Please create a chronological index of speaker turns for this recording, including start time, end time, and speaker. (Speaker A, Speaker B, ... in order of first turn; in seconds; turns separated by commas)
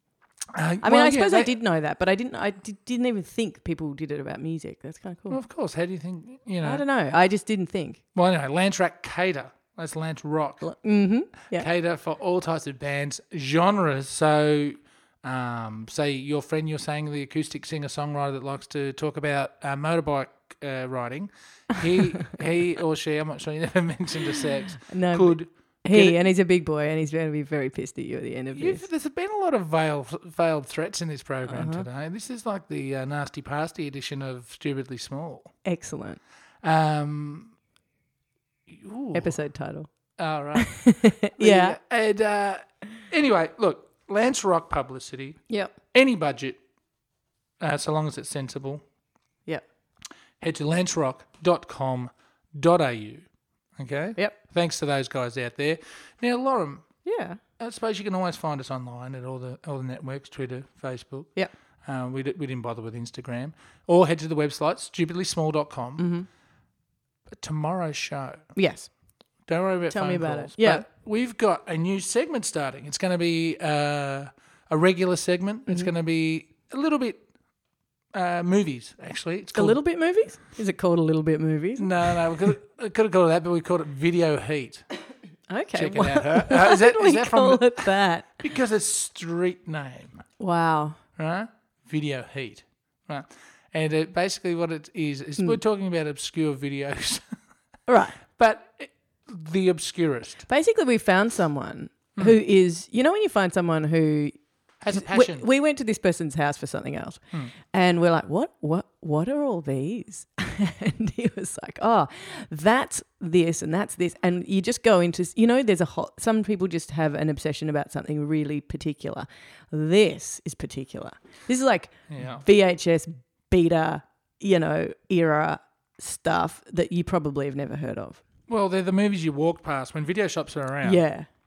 Speaker A: 0.5-1.5, Speaker B: 0.8-5.4, Speaker A: 5.3-6.8, Speaker B: 6.6-8.0, Speaker A: 8.1-10.6, Speaker B: 10.6-11.7, Speaker A: 11.5-26.2, Speaker B: 24.8-28.8, Speaker A: 28.5-35.5, Speaker B: 31.5-31.9, Speaker B: 35.6-36.2, Speaker A: 36.6-37.5, Speaker A: 38.7-39.4, Speaker B: 39.1-39.9, Speaker A: 40.2-46.6, Speaker B: 40.6-41.8, Speaker B: 45.5-45.7, Speaker A: 47.6-48.8, Speaker A: 50.4-53.2, Speaker A: 53.8-56.9, Speaker B: 57.0-57.4, Speaker A: 57.6-61.3, Speaker A: 61.9-66.0, Speaker B: 66.0-66.3, Speaker A: 67.3-68.5, Speaker B: 68.5-68.9, Speaker A: 69.5-77.2, Speaker B: 69.9-70.8, Speaker A: 78.1-79.8, Speaker B: 79.5-82.2, Speaker A: 81.8-84.9, Speaker B: 85.5-88.4, Speaker A: 85.8-90.2, Speaker B: 90.4-91.0, Speaker A: 91.2-97.2, Speaker B: 97.9-98.2, Speaker A: 98.3-100.4, Speaker B: 100.5-104.3, Speaker A: 104.8-105.4, Speaker B: 104.9-107.2, Speaker B: 107.7-128.2, Speaker A: 122.1-122.4, Speaker A: 128.5-131.0, Speaker B: 130.8-131.3